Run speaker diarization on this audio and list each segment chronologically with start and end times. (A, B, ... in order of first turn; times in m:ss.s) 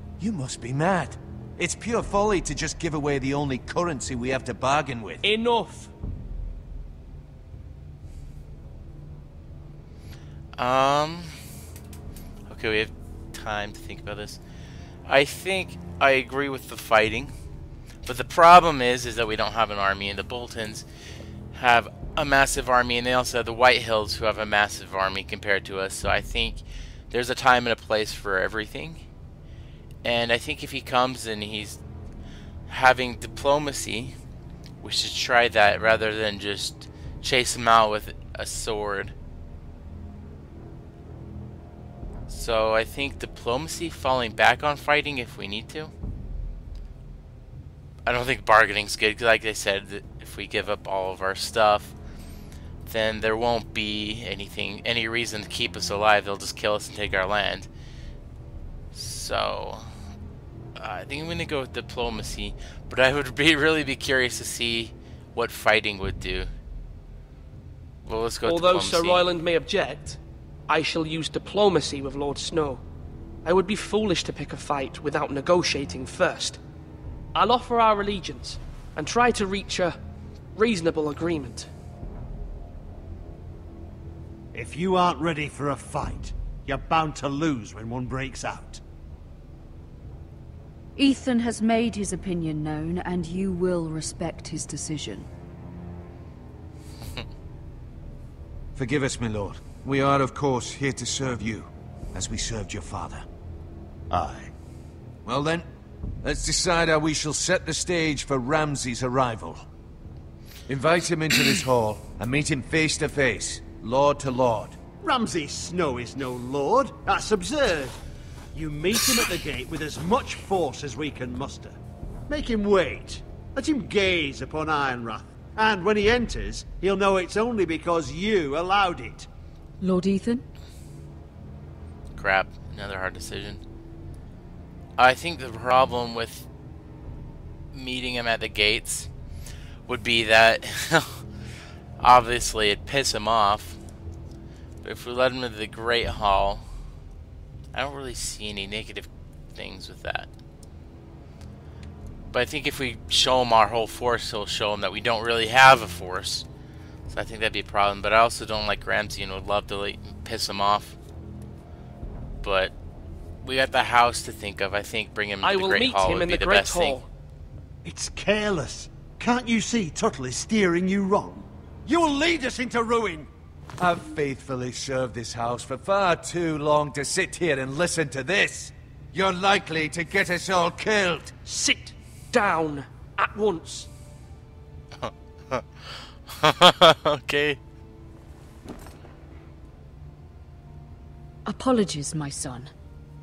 0:00.2-0:05.2 A
0:05.2-0:05.9 B
0:10.6-0:11.4 C
0:12.5-0:14.4 C
0:15.0-0:17.3 C
0:18.0-0:20.8 C
0:21.5-0:29.0 C
0:30.0-0:31.8 C
0:32.7-0:34.2 C
0:34.8-0:39.1 C
0:42.3-0:45.9 C
0:48.0-0:51.9 C
0:52.8-0:57.7 C
0:58.9-0:59.9 C
1:00.8-1:06.5 C
1:08.0-1:09.2 C
1:08.4-1:12.8 B
1:13.4-1:16.6 B
1:17.3-1:20.0 B
1:20.5-1:21.7 B
1:24.5-1:28.8 D
1:31.0-1:35.3 E
1:38.7-1:43.2 A
1:44.1-1:44.5 A
1:45.2-1:45.7 A
1:46.2-1:49.6 A
1:50.7-1:54.8 A
1:55.0-1:58.0 D
1:58.5-2:01.8 D
2:02.3-2:09.3 D
2:09.8-2:10.4 E
2:12.1-2:13.6 C
2:15.0-2:16.5 C
2:17.7-2:19.1 C
2:19.9-2:21.2 C
2:22.0-2:23.8 C
2:24.8-2:26.7 C
2:27.7-2:30.3 C
2:32.3-2:36.4 C
2:37.1-2:41.0 C
2:42.4-2:42.7 C
2:43.4-2:47.0 C
2:45.4-2:47.1 B
2:47.8-2:51.5 D
2:51.9-2:52.4 A
2:52.0-2:53.3 D
2:53.8-3:01.3 A
3:01.4-3:03.9 B
3:05.0-3:07.6 C
3:11.4-3:12.7 E